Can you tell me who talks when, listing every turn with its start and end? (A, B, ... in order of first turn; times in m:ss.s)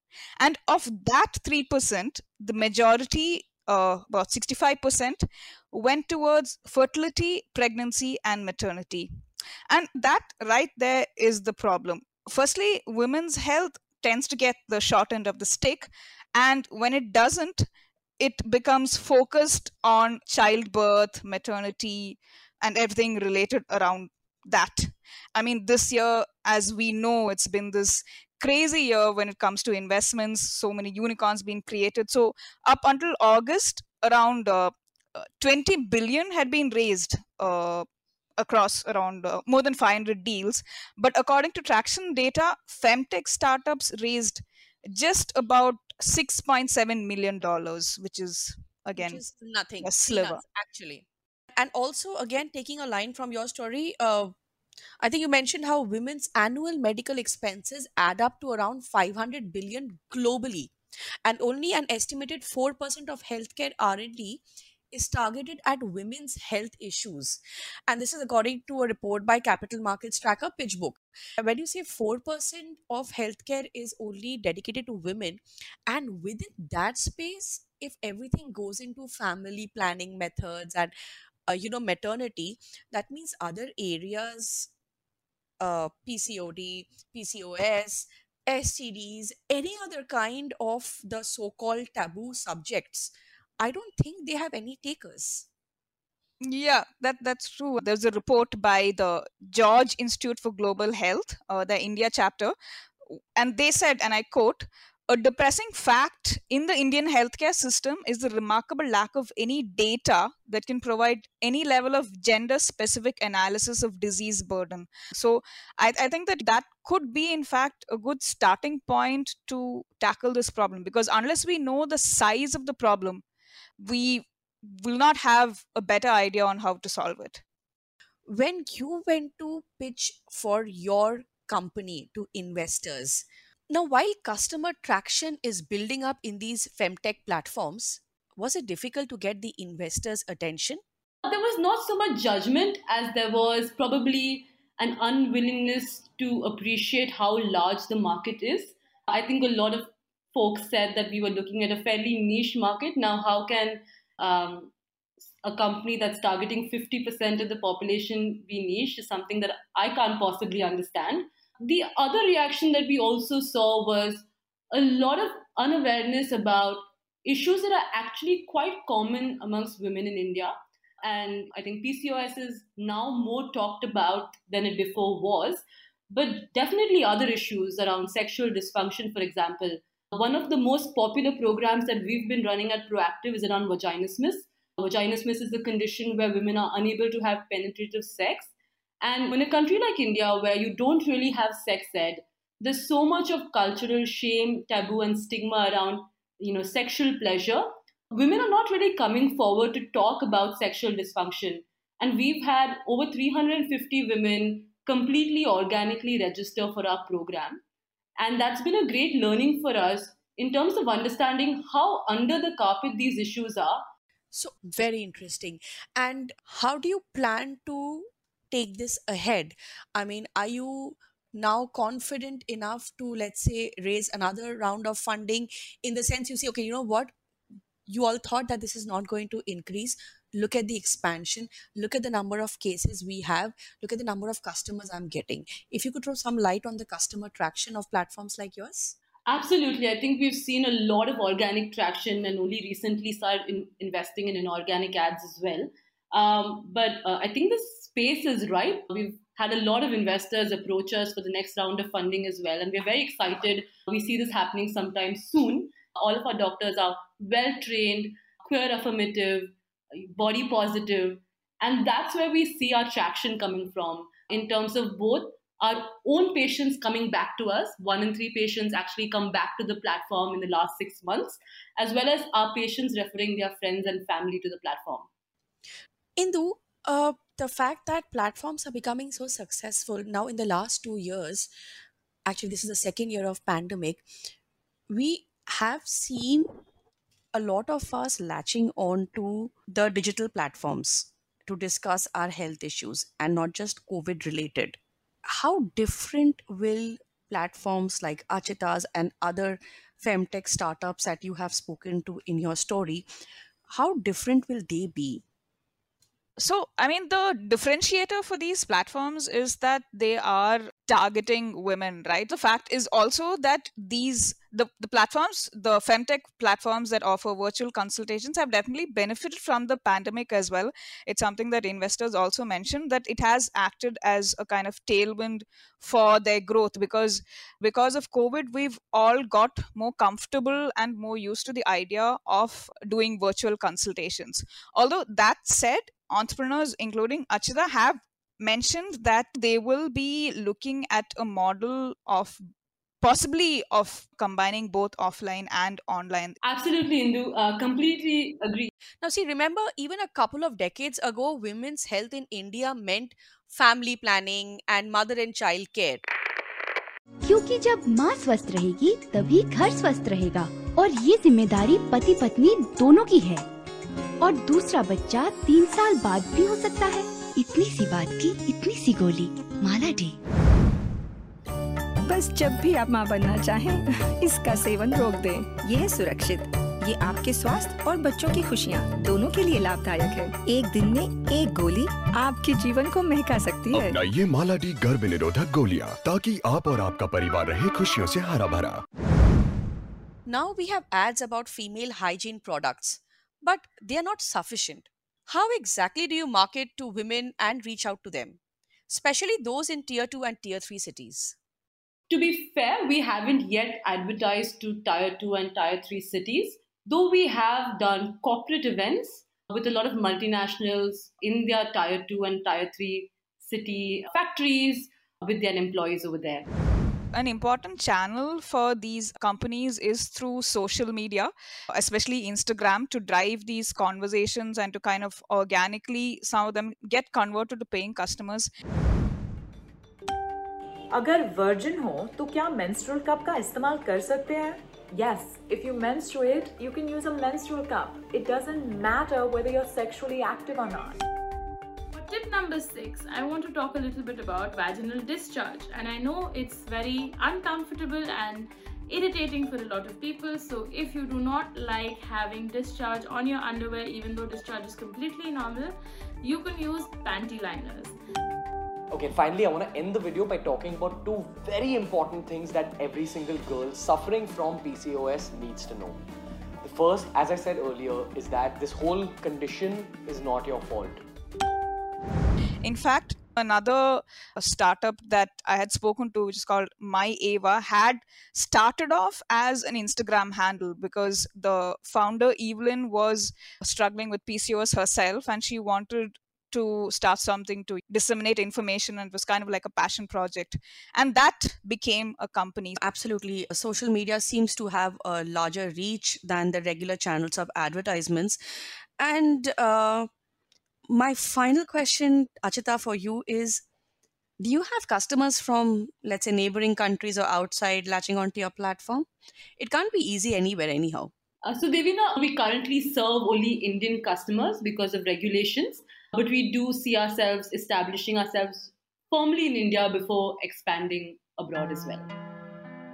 0:00.4-0:09.1 A
0:09.7-0:17.7 A
0:18.2-0:34.7 A
0:35.4-0:37.8 A
0:38.4-0:49.2 A
0:49.0-0:54.3 B
0:49.8-0:50.4 A
0:55.0-1:00.7 B
1:01.2-1:20.9 B
1:21.5-1:24.7 B
1:25.6-1:35.5 B
1:36.4-1:42.5 A
1:43.4-2:03.2 A
2:03.8-2:04.3 A
2:04.8-2:07.4 A
2:08.3-2:20.8 B
2:21.2-2:34.7 C
2:35.4-3:27.6 C
3:28.2-3:33.8 C
3:34.3-3:47.1 B
3:47.9-3:58.9 B
3:59.3-4:35.1 C
4:36.2-4:41.5 B
4:42.2-4:44.0 B
4:44.9-4:46.5 B
4:47.3-5:03.0 B
5:03.7-5:05.2 B
5:06.4-5:42.4 A
5:43.0-5:46.4 A
5:46.4-5:48.7 C
5:49.0-5:56.0 B
5:57.2-6:03.4 D
6:04.2-6:10.2 D
6:12.1-6:24.0 E
6:23.7-6:28.8 F
6:30.3-6:38.4 B
6:38.9-6:41.4 B
6:42.1-6:56.4 C
6:57.1-7:08.5 A
7:10.9-7:21.0 G
7:21.9-7:38.0 H
7:38.9-7:46.0 I
7:46.6-7:51.0 I
7:52.6-8:12.8 A
8:12.8-8:18.4 B
8:19.0-8:20.1 B
8:20.9-8:23.6 B
8:24.4-8:29.1 B
8:29.6-8:31.1 B
8:31.4-8:42.1 C